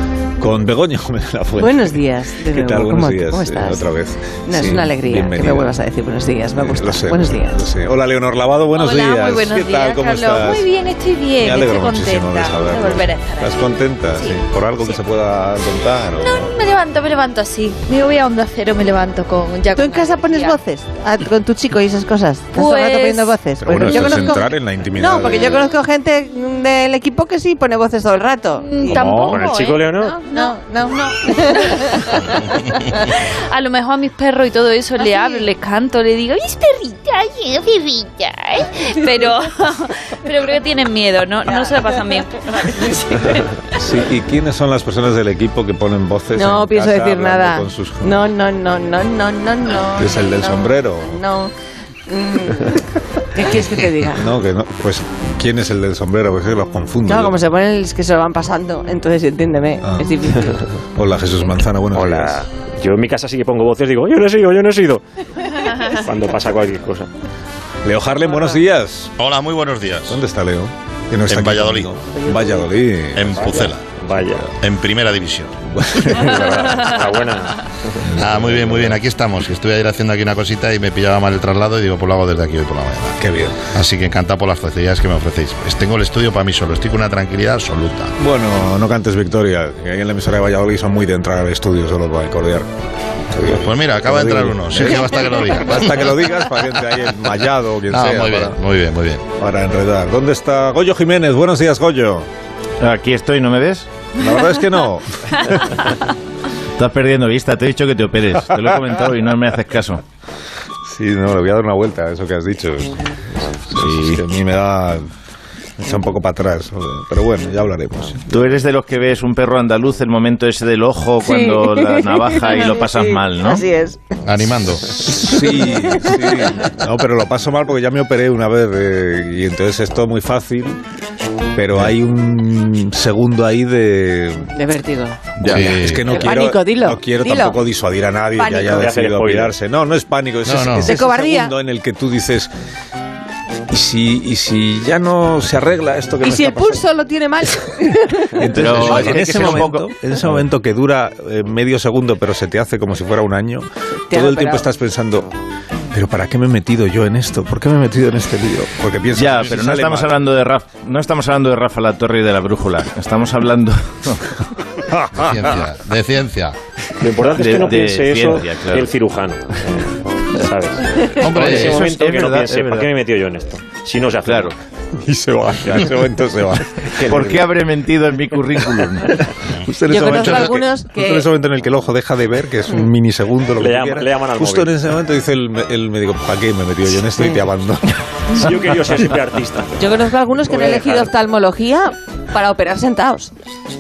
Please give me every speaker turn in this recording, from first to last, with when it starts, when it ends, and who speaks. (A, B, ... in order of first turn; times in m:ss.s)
0:00.4-0:05.7 A
0:01.6-0:03.9 B
0:04.5-0:07.5 B
0:06.6-0:10.7 A
0:08.7-0:13.5 C
0:11.4-0:16.5 A
0:16.2-0:20.5 C
0:19.7-0:29.2 B
0:22.5-0:24.2 C
0:23.6-0:25.7 A
0:28.6-0:32.2 C
0:28.9-0:29.4 A
0:29.2-0:30.2 D
0:30.2-0:32.4 B
0:33.0-0:43.5 C
0:41.5-0:41.8 B
0:43.7-0:48.3 A
0:46.3-0:51.5 B
0:49.9-0:51.2 A
0:52.1-0:52.8 B
0:53.3-0:54.2 B
0:53.4-0:57.4 A
0:57.0-1:00.6 B
0:59.8-1:02.4 A
1:01.9-1:07.1 D
1:07.8-1:09.1 A
1:09.2-1:10.2 E
1:10.1-1:14.4 A
1:11.3-1:11.9 E
1:13.1-1:13.8 E
1:14.0-1:14.4 D
1:14.6-1:16.1 E
1:15.7-1:17.1 A
1:16.8-1:18.0 D
1:18.0-1:19.0 A
1:18.2-1:23.2 E
1:23.2-1:23.7 A
1:23.7-1:28.1 E
1:28.2-1:32.7 A
1:33.3-1:38.6 A
1:33.5-1:36.1 E
1:37.9-1:39.2 E
1:39.4-1:42.3 A
1:42.8-1:43.9 F
1:44.2-1:45.9 A
1:46.8-1:50.0 F
1:50.8-1:55.0 A
1:55.8-1:58.5 A
1:58.3-2:03.6 F
2:01.2-2:04.2 B
2:04.2-2:04.9 E
2:04.9-2:10.8 A
2:05.8-2:06.5 B
2:11.5-2:14.5 A
2:14.5-2:15.3 B
2:15.4-2:15.8 F
2:15.4-2:22.5 A
2:15.5-2:16.4 E
2:16.0-2:17.6 B
2:18.4-2:18.8 B
2:18.7-2:19.5 D
2:20.4-2:21.0 E
2:20.8-2:21.5 B
2:23.7-2:26.8 A
2:26.2-2:28.3 B
2:28.4-2:35.3 A
2:28.5-2:29.9 F
2:28.8-2:29.2 B
2:34.1-2:34.7 B
2:35.9-2:40.2 A
2:39.1-2:44.2 F
2:45.1-2:46.6 E
2:47.0-2:54.5 D
2:47.4-2:48.9 F
2:51.2-2:51.8 E
2:51.3-2:52.9 F
2:54.2-2:54.5 F
2:55.0-2:57.4 A
2:57.0-2:59.2 F
2:59.7-3:07.9 A
2:59.8-3:01.3 B
3:00.2-3:00.4 E
3:03.6-3:04.7 D
3:08.3-3:09.9 D
3:09.8-3:13.3 B
3:10.4-3:11.1 D